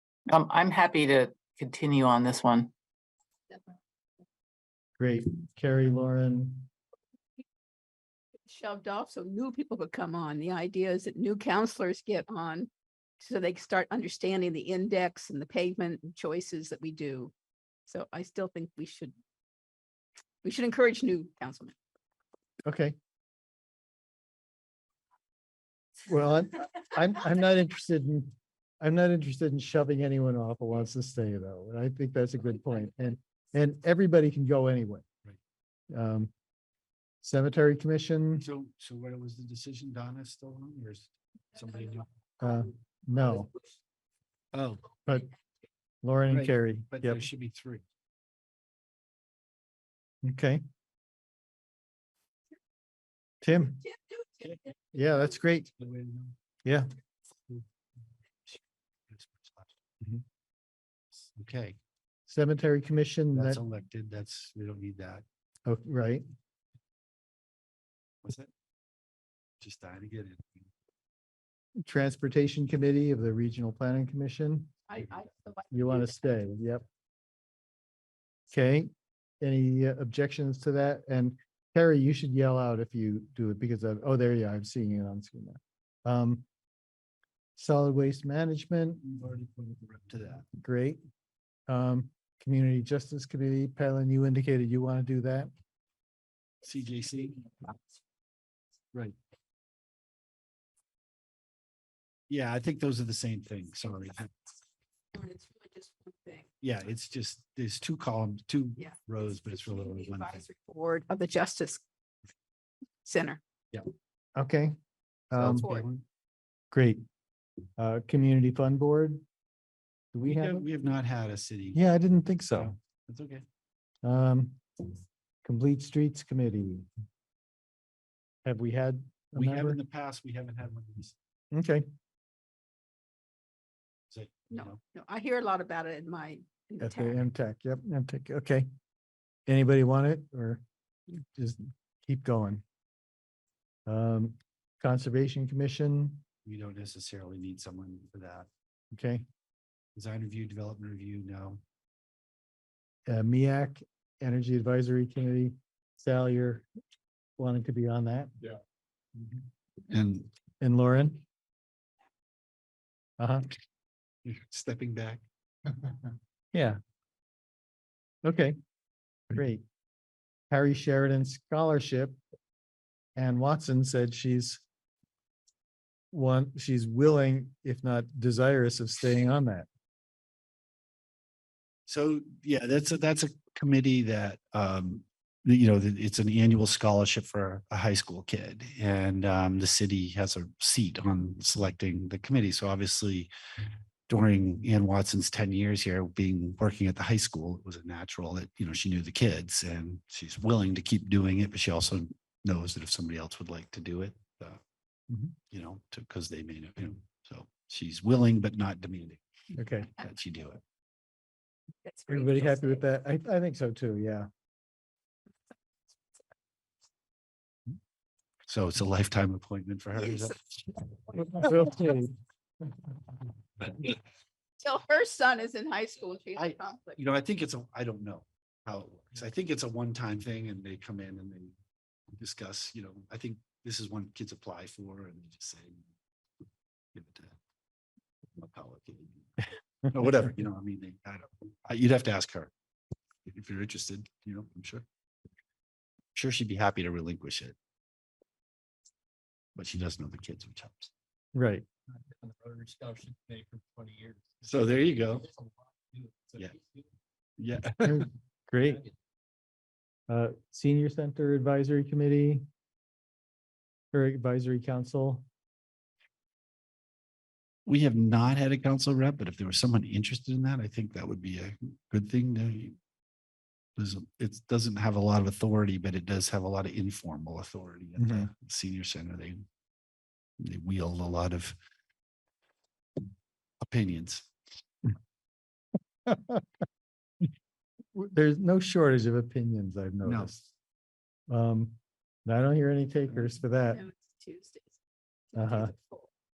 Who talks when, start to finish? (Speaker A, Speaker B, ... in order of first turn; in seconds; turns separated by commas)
Speaker A: 0.3-2.7, Speaker B: 5.0-6.7, Speaker C: 8.5-12.7, Speaker C: 13.2-17.3, Speaker C: 17.9-19.1, Speaker C: 20.4-21.8, Speaker B: 22.6-22.9, Speaker B: 26.1-35.0, Speaker B: 35.9-36.3, Speaker B: 37.2-38.5, Speaker D: 38.4-42.1, Speaker B: 42.4-43.5, Speaker D: 44.5-44.8, Speaker B: 46.0-47.3, Speaker D: 46.3-47.8, Speaker B: 50.2-50.6, Speaker B: 53.4-53.9, Speaker B: 54.9-55.7, Speaker D: 55.8-56.4, Speaker B: 56.6-56.9, Speaker D: 58.5-59.7, Speaker D: 61.1-61.8, Speaker B: 62.3-63.6, Speaker D: 63.3-65.2, Speaker B: 65.7-66.2, Speaker D: 68.2-68.5, Speaker D: 69.6-70.7, Speaker B: 71.8-74.8, Speaker C: 74.9-76.2, Speaker B: 75.7-76.8, Speaker B: 78.5-86.4, Speaker B: 87.5-89.0, Speaker D: 89.0-90.5, Speaker B: 90.6-91.0, Speaker B: 91.7-95.5, Speaker D: 96.6-97.5, Speaker D: 102.3-104.3, Speaker C: 105.1-106.5, Speaker D: 106.6-110.4, Speaker C: 108.8-111.8, Speaker C: 113.0-113.4, Speaker B: 114.3-114.8, Speaker B: 115.3-115.8, Speaker D: 115.4-116.0, Speaker C: 115.5-115.8, Speaker B: 116.7-117.0, Speaker B: 117.8-119.2, Speaker B: 120.1-120.7, Speaker D: 120.2-121.8, Speaker B: 121.7-122.7, Speaker D: 122.5-123.4, Speaker B: 124.0-124.6, Speaker B: 125.4-126.9, Speaker B: 128.4-129.8, Speaker D: 129.3-131.2, Speaker B: 131.5-131.9, Speaker D: 134.1-134.8, Speaker C: 134.5-137.2, Speaker B: 136.8-138.7, Speaker B: 139.5-142.6, Speaker B: 143.8-146.2, Speaker D: 146.4-148.5, Speaker B: 148.9-149.2, Speaker D: 149.9-151.6, Speaker B: 153.1-156.7, Speaker B: 157.4-158.3, Speaker D: 159.9-160.3, Speaker B: 160.6-161.2, Speaker B: 163.2-163.5, Speaker D: 164.2-165.2, Speaker B: 166.5-166.8, Speaker B: 168.2-168.6, Speaker B: 169.3-169.6, Speaker B: 170.5-172.2, Speaker B: 173.2-174.6, Speaker B: 176.1-179.7, Speaker D: 181.9-193.3, Speaker D: 194.1-204.6, Speaker B: 205.1-205.3, Speaker D: 205.5-209.2, Speaker B: 209.5-209.9, Speaker D: 210.0-210.6, Speaker C: 211.8-212.8, Speaker B: 212.1-214.3, Speaker D: 218.5-220.4, Speaker B: 221.1-222.1, Speaker C: 224.6-227.0, Speaker D: 226.3-231.6, Speaker D: 232.1-235.8, Speaker D: 236.9-237.4, Speaker D: 238.3-242.5, Speaker D: 243.2-244.8, Speaker D: 246.1-247.6, Speaker D: 249.6-250.9, Speaker B: 251.3-251.7, Speaker E: 252.1-256.8, Speaker D: 254.4-255.3, Speaker D: 257.4-258.1, Speaker B: 257.8-258.8, Speaker B: 260.1-262.4, Speaker B: 263.9-265.2, Speaker D: 267.6-272.8, Speaker D: 273.8-279.4, Speaker B: 278.0-278.3, Speaker D: 280.4-281.6, Speaker D: 283.6-284.3, Speaker B: 286.1-286.5, Speaker B: 287.9-290.4, Speaker D: 290.0-290.4, Speaker B: 291.3-293.8, Speaker C: 293.7-294.8, Speaker C: 295.3-296.1, Speaker B: 295.4-295.7